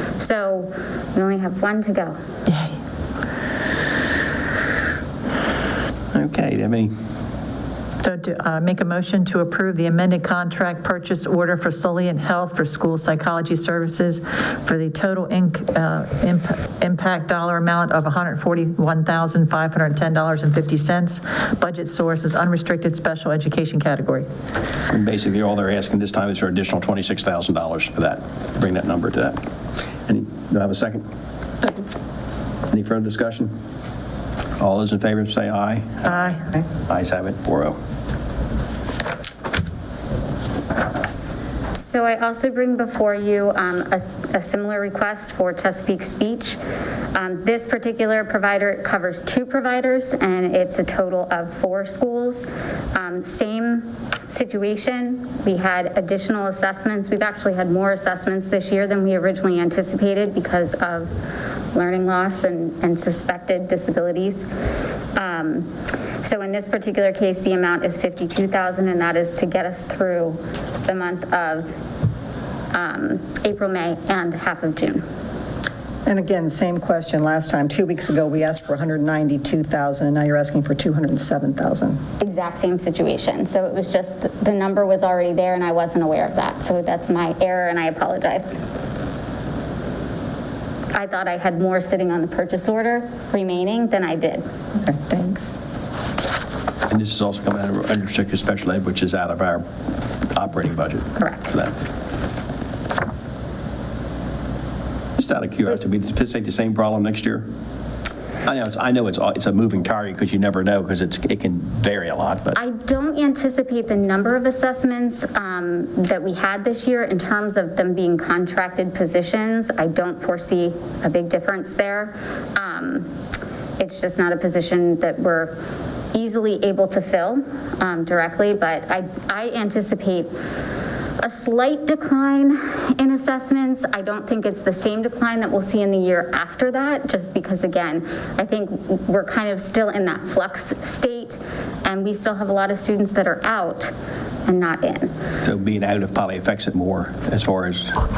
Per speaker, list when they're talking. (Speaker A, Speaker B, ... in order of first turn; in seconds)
Speaker A: 0.2-2.2, 41.8-46.6, 47.1-61.1, 61.7-64.5, 65.2-65.7, 66.2-71.7, 72.7-75.0, 82.2-88.6, 90.9-94.4, 101.2-101.5, 112.6-123.1, 123.8-125.6, 126.1-130.3, 131.2-143.9, 144.5-145.1
Speaker B: 2.5-2.7, 8.0-24.3, 36.1-36.4
Speaker C: 6.1-6.9, 24.9-29.4, 30.1-31.1, 32.7-33.5, 34.6-37.8, 96.9-99.6, 100.3-101.7, 105.2-107.5, 108.5-112.6, 145.4-148.0
Speaker D: 76.1-82.0, 94.8-95.5